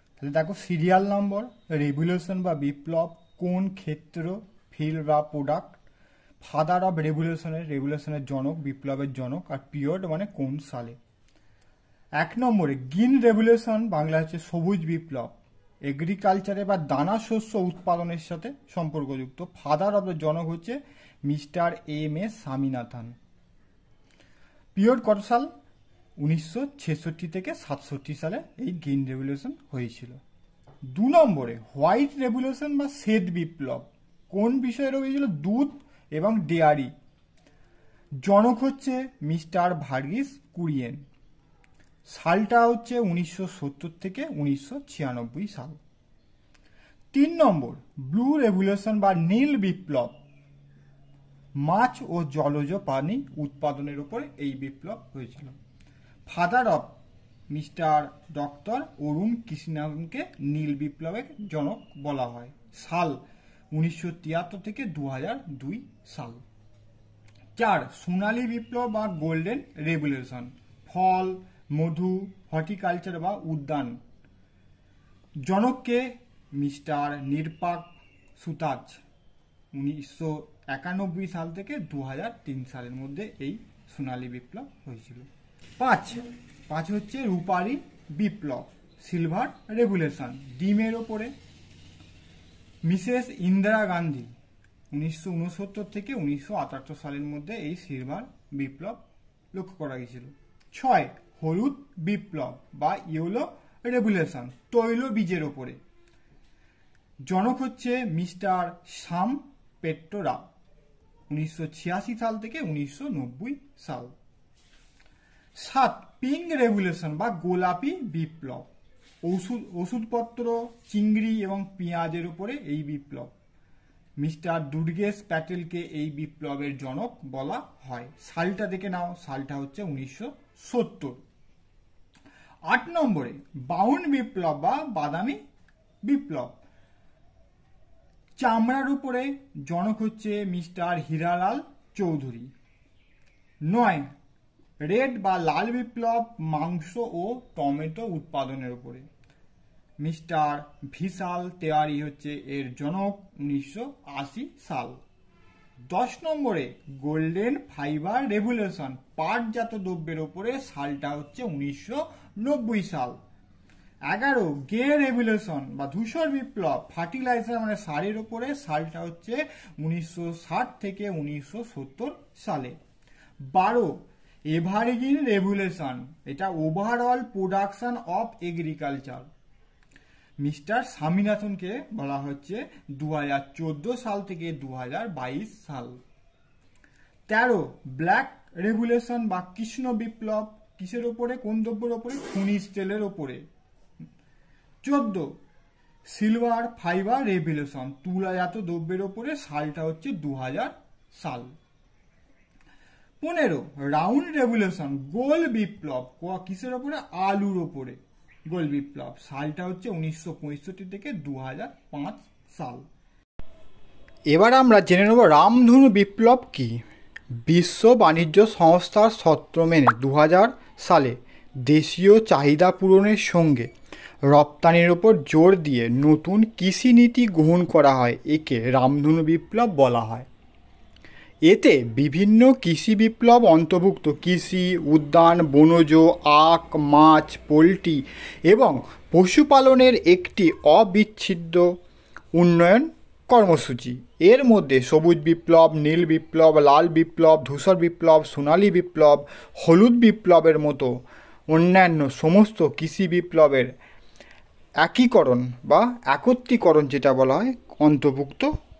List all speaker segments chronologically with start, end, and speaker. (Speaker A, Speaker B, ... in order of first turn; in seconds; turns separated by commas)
Speaker A: 0.2-5.8, Speaker A: 6.4-11.0, Speaker A: 12.2-23.2, Speaker A: 24.8-25.5, Speaker A: 26.2-30.2, Speaker A: 30.9-36.9, Speaker A: 38.2-41.0, Speaker A: 42.1-45.8, Speaker A: 47.1-50.2, Speaker A: 51.6-55.6, Speaker A: 56.3-57.0, Speaker A: 57.5-63.2, Speaker A: 63.7-66.4, Speaker A: 67.6-74.0, Speaker A: 75.4-79.0, Speaker A: 79.7-85.3, Speaker A: 85.8-91.3, Speaker A: 92.8-94.3, Speaker A: 94.9-99.0, Speaker A: 99.5-105.8, Speaker A: 107.2-110.4, Speaker A: 111.3-114.1, Speaker A: 115.5-118.7, Speaker A: 119.2-123.3, Speaker A: 124.2-131.2, Speaker A: 132.7-135.4, Speaker A: 136.0-136.6, Speaker A: 138.4-142.5, Speaker A: 143.7-144.1, Speaker A: 144.8-149.1, Speaker A: 150.0-155.0, Speaker A: 155.9-163.2, Speaker A: 164.1-172.8, Speaker A: 173.5-174.0, Speaker A: 174.5-179.3, Speaker A: 180.4-186.0, Speaker A: 187.3-193.5, Speaker A: 194.8-195.4, Speaker A: 196.1-201.5, Speaker A: 203.2-212.8, Speaker A: 214.3-216.8, Speaker A: 217.4-223.7, Speaker A: 224.3-230.3, Speaker A: 231.5-241.8, Speaker A: 242.3-250.9, Speaker A: 251.5-253.7, Speaker A: 254.8-258.5